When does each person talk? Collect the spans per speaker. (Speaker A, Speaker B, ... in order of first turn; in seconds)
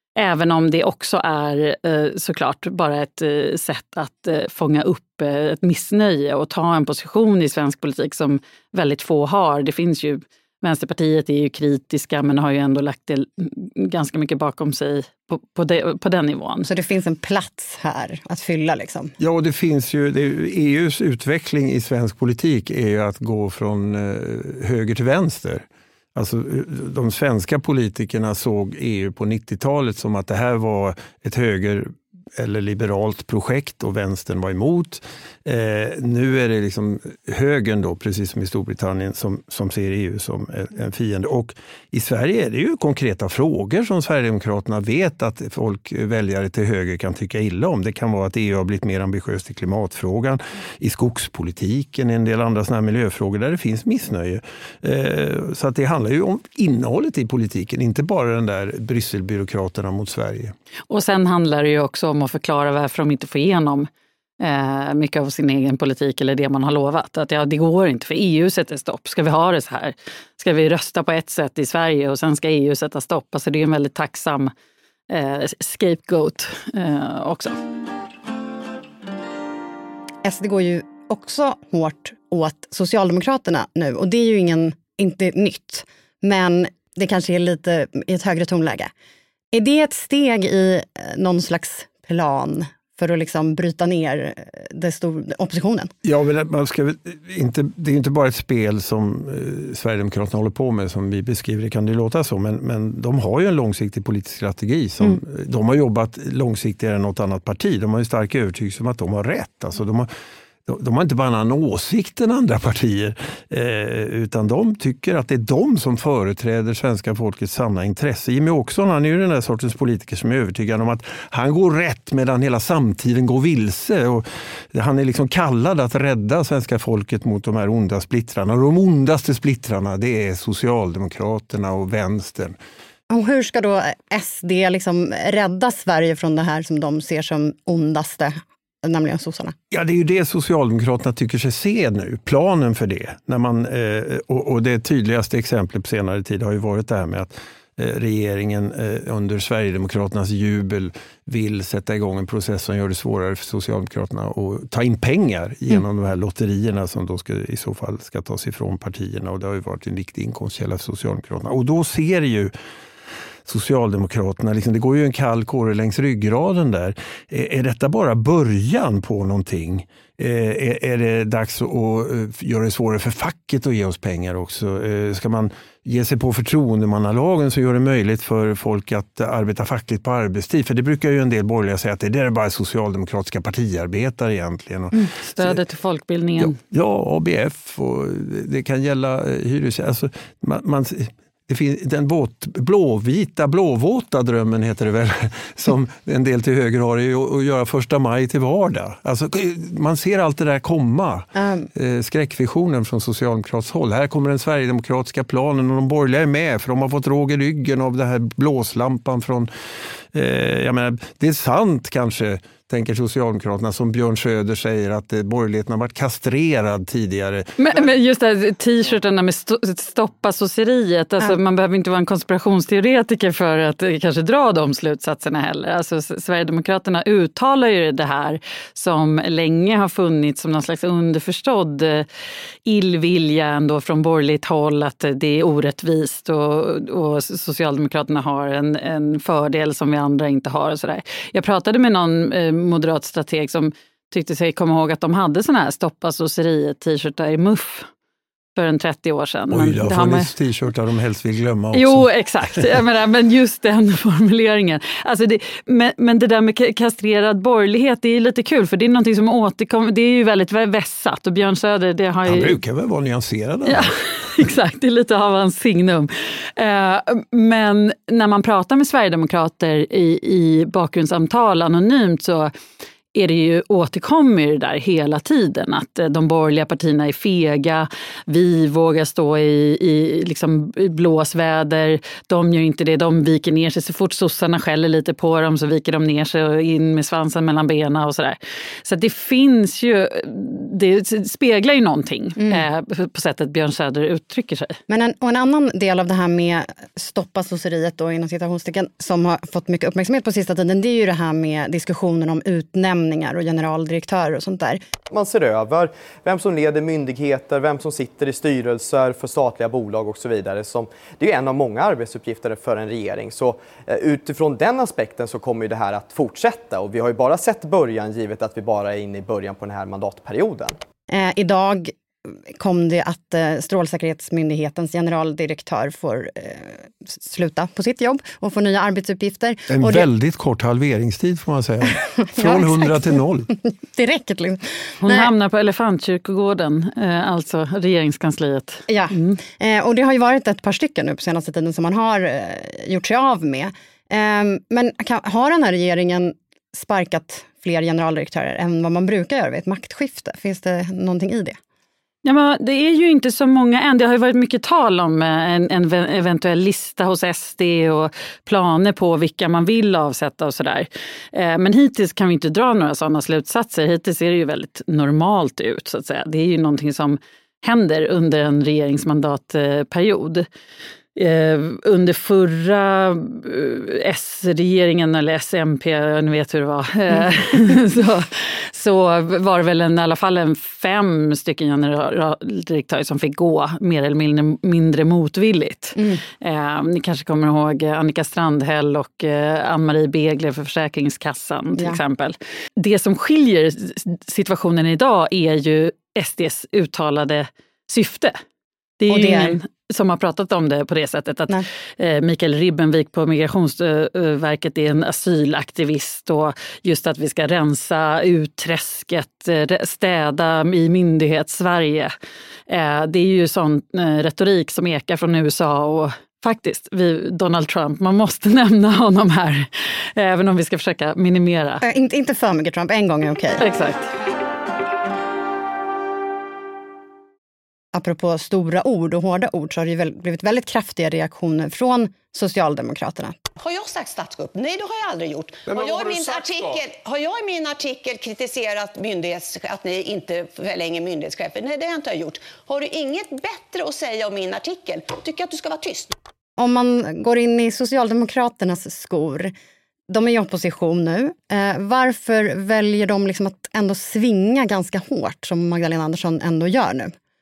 Speaker A: 0.2-16.7, 60.9-63.9, 64.4-74.5, 75.1-77.6, 184.9-186.6, 217.6-232.1, 232.7-247.9, 248.6-250.3, 251.7-262.6, 263.6-272.5, 273.1-294.8, 335.0-339.4, 352.2-370.5, 371.1-398.4, 399.0-412.1, 412.7-421.8, 423.6-424.1
Speaker B: 16.6-19.1, 80.2-88.9, 89.5-95.9, 133.1-139.5, 201.3-201.7, 294.9-304.8, 321.1-330.1, 332.2-332.9, 333.6-335.3, 338.9-351.6, 386.0-386.2, 399.1-399.6, 421.8-423.6, 427.9-433.4, 446.6-449.5, 450.1-457.1
Speaker C: 19.2-60.5, 96.0-110.1, 110.7-132.6, 139.7-162.5, 163.4-185.6, 186.4-209.5, 210.1-217.5, 249.5-252.1, 262.2-263.9, 329.7-333.5
Speaker D: 305.1-320.8
Speaker E: 433.6-446.2